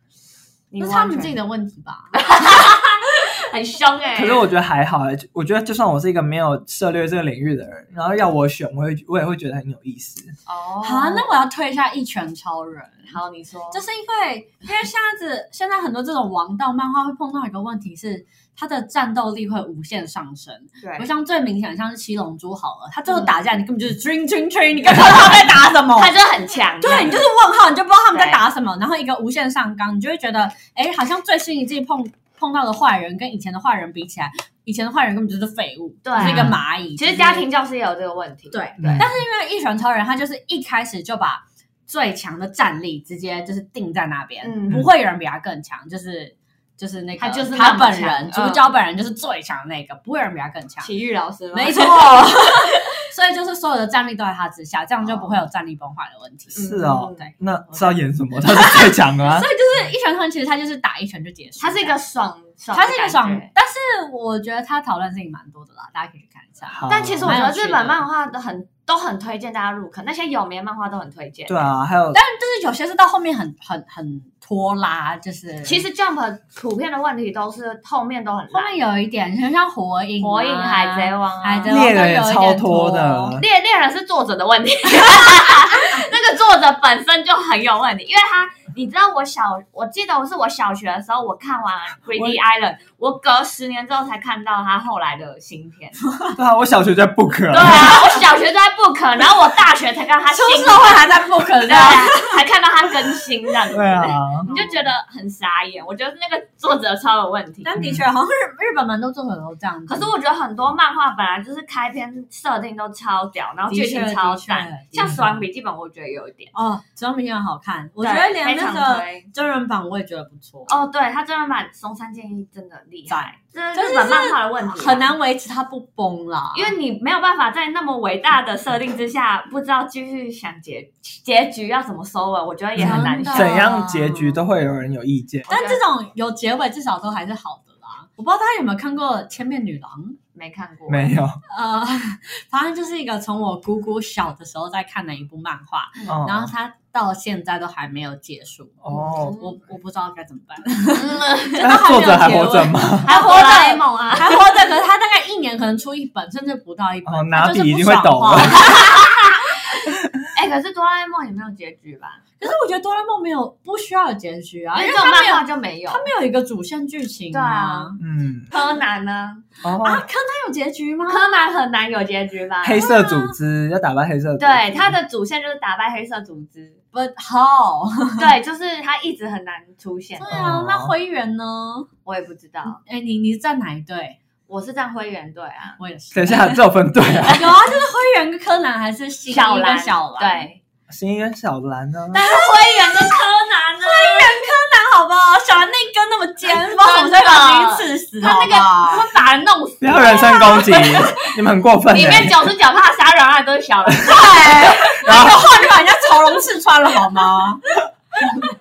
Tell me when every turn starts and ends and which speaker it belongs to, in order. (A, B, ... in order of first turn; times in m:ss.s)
0:00.7-0:01.4 A
0:00.8-0:02.6 B
0:02.1-0:04.5 A
0:04.2-0:10.4 C
0:10.5-0:11.4 A
0:10.8-0:13.2 B
0:13.1-0:13.8 A
0:13.7-0:26.2 B
0:20.8-0:21.1 A
0:23.1-0:23.3 A
0:26.0-0:27.3 A
0:26.8-0:37.5 B
0:28.1-0:28.4 A
0:36.0-0:39.1 A
0:36.2-0:36.6 C
0:38.5-0:50.9 B
0:38.8-0:39.1 C
0:44.4-0:44.9 A
0:47.2-0:48.7 A
0:50.8-0:52.9 A
0:51.5-1:02.0 B
0:56.5-0:57.3 A
0:56.6-0:59.5 C
1:01.6-1:03.5 A
1:02.7-1:08.0 B
1:06.7-1:07.4 C
1:06.9-1:11.7 A
1:11.5-1:12.2 C
1:12.1-1:15.8 B
1:15.6-1:18.8 A
1:18.5-1:23.4 B
1:20.2-1:21.7 A
1:21.7-1:23.4 C
1:23.4-1:36.0 A
1:36.4-1:38.0 C
1:37.5-1:47.7 A
1:40.3-1:42.4 B
1:43.7-1:44.5 C
1:44.4-1:44.9 B
1:47.6-1:50.1 B
1:47.8-1:48.0 C
1:49.9-1:56.5 A
1:53.7-1:55.3 B
1:56.5-2:00.8 B
1:58.0-1:59.3 A
2:00.7-2:05.1 A
2:03.1-2:06.8 B
2:06.5-2:13.6 A
2:12.8-2:15.5 C
2:12.8-2:14.4 B
2:15.5-2:15.8 A
2:15.5-2:20.2 B
2:20.4-2:21.2 A
2:20.9-2:21.4 C
2:21.5-2:39.2 B
2:26.1-2:26.5 C
2:28.8-2:29.4 C
2:28.9-2:29.6 A
2:31.0-2:31.7 A
2:31.6-2:33.1 C
2:33.0-2:34.4 A
2:37.1-2:38.6 C
2:38.6-2:39.3 A
2:40.3-2:42.2 A
2:42.4-2:48.0 B
2:44.8-2:46.1 A
2:47.3-2:48.0 A
2:48.0-2:48.5 C
2:48.5-2:49.5 A
2:49.6-2:50.1 C
2:49.8-2:51.4 B
2:51.1-2:53.0 A
2:52.6-2:54.9 C
2:52.8-2:53.4 B
2:54.4-2:56.8 A
2:56.9-2:58.3 B
2:58.2-3:00.3 A
3:00.2-3:01.9 B
3:00.3-3:00.9 C
3:02.0-3:02.8 A
3:02.9-3:04.2 B
3:04.5-3:05.8 A
3:05.8-3:06.6 B
3:06.1-3:07.5 C
3:07.3-3:10.5 B
3:09.3-3:10.6 A
3:10.9-3:12.2 C
3:12.1-3:14.3 A
3:12.2-3:13.2 B
3:13.8-3:19.1 B
3:16.5-3:21.2 A
3:19.8-3:22.5 C
3:21.9-3:25.0 A
3:24.0-3:27.6 B
3:25.0-3:25.5 C